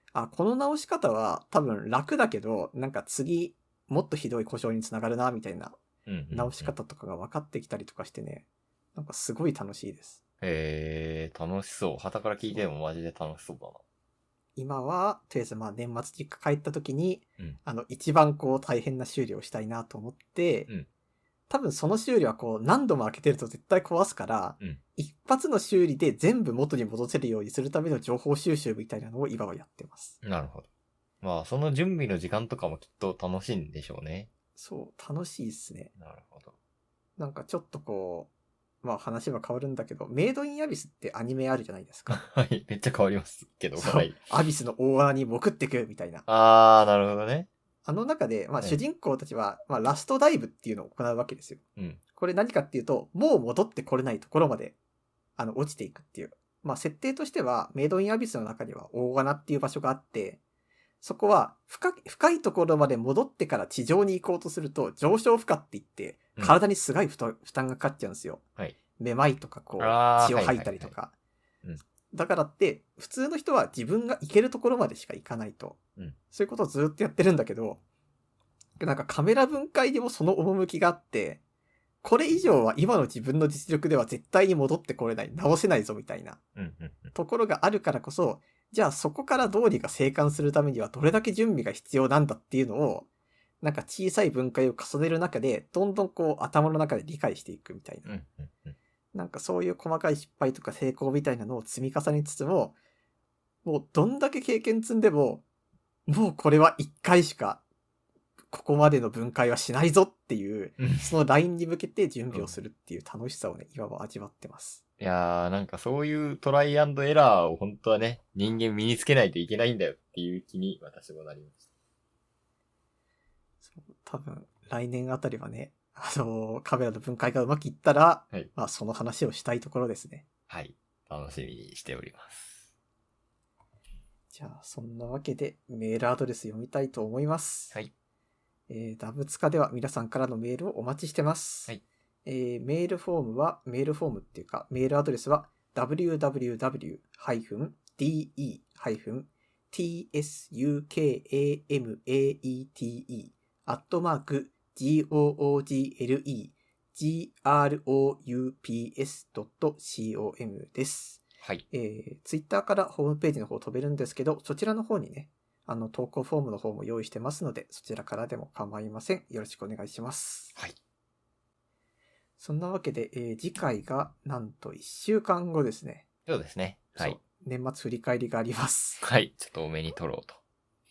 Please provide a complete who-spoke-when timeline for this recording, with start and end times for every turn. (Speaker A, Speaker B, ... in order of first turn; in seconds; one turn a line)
Speaker A: 0.1-5.8
Speaker B: 6.0-6.7
Speaker A: 6.3-10.2
Speaker B: 10.4-13.8
Speaker A: 14.6-20.7
Speaker A: 21.5-30.2
Speaker B: 30.2-30.7
Speaker B: 31.2-34.3
Speaker A: 34.5-35.9
Speaker B: 36.0-36.5
Speaker A: 37.2-38.3
Speaker A: 38.8-42.2
Speaker B: 42.1-44.2
Speaker A: 43.8-46.2
Speaker B: 46.3-47.5
Speaker A: 47.8-51.6
Speaker A: 52.1-54.8
Speaker A: 55.4-60.4
Speaker A: 61.0-68.4
Speaker A: 69.0-71.1
Speaker B: 69.8-70.9
Speaker A: 72.1-75.8
Speaker A: 76.3-77.8
Speaker A: 78.8-81.4
Speaker A: 82.0-86.4
Speaker B: 86.5-87.1
Speaker A: 87.1-93.1
Speaker A: 93.6-98.1
Speaker B: 98.0-98.8
Speaker A: 99.1-102.8
Speaker A: 103.6-105.4
Speaker A: 106.1-107.6
Speaker A: 108.5-114.8
Speaker B: 110.8-111.1
Speaker B: 115.0-121.7
Speaker A: 123.6-130.2
Speaker B: 130.5-132.7
Speaker A: 134.3-137.7
Speaker A: 138.7-141.7
Speaker A: 142.2-170.5
Speaker A: 172.4-176.0
Speaker B: 176.2-177.2
Speaker A: 176.9-179.0
Speaker B: 179.0-180.4